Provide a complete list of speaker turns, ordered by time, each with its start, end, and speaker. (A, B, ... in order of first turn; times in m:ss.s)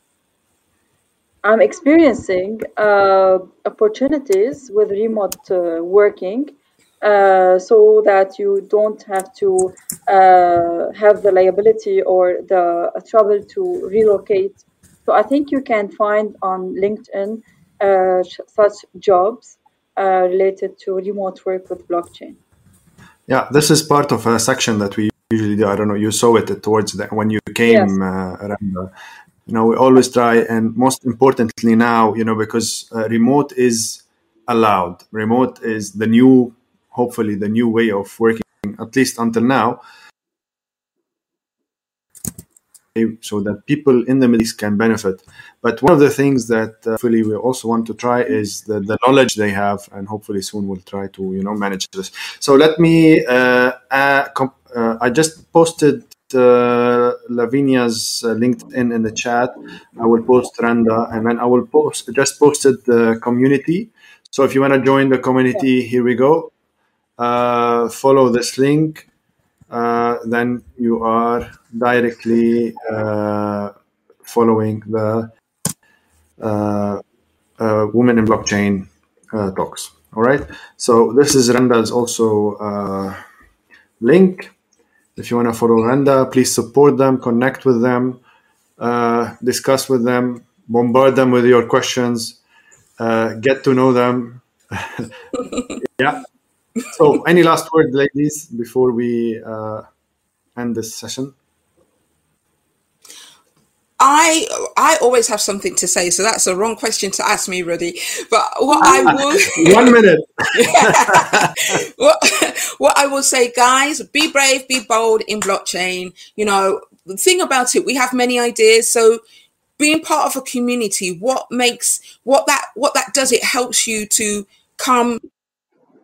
0:01.4-0:22.4 A
0:23.3-0:28.9 B
0:27.7-0:28.0 A
0:29.5-0:39.8 B
0:43.0-1:06.5 B
1:07.2-1:09.1 B
1:09.7-1:13.7 B
1:14.2-1:15.3 B
1:16.4-1:17.0 B
1:17.6-1:23.2 B
1:24.0-1:24.5 B
1:25.2-1:28.2 B
1:28.8-1:32.4 B
1:33.0-1:35.1 B
1:35.9-1:36.2 B
1:36.9-1:39.9 B
1:40.6-1:41.3 B
1:44.0-1:50.0 C
1:48.8-1:51.7 B
1:50.6-1:59.2 C
1:59.8-2:05.2 C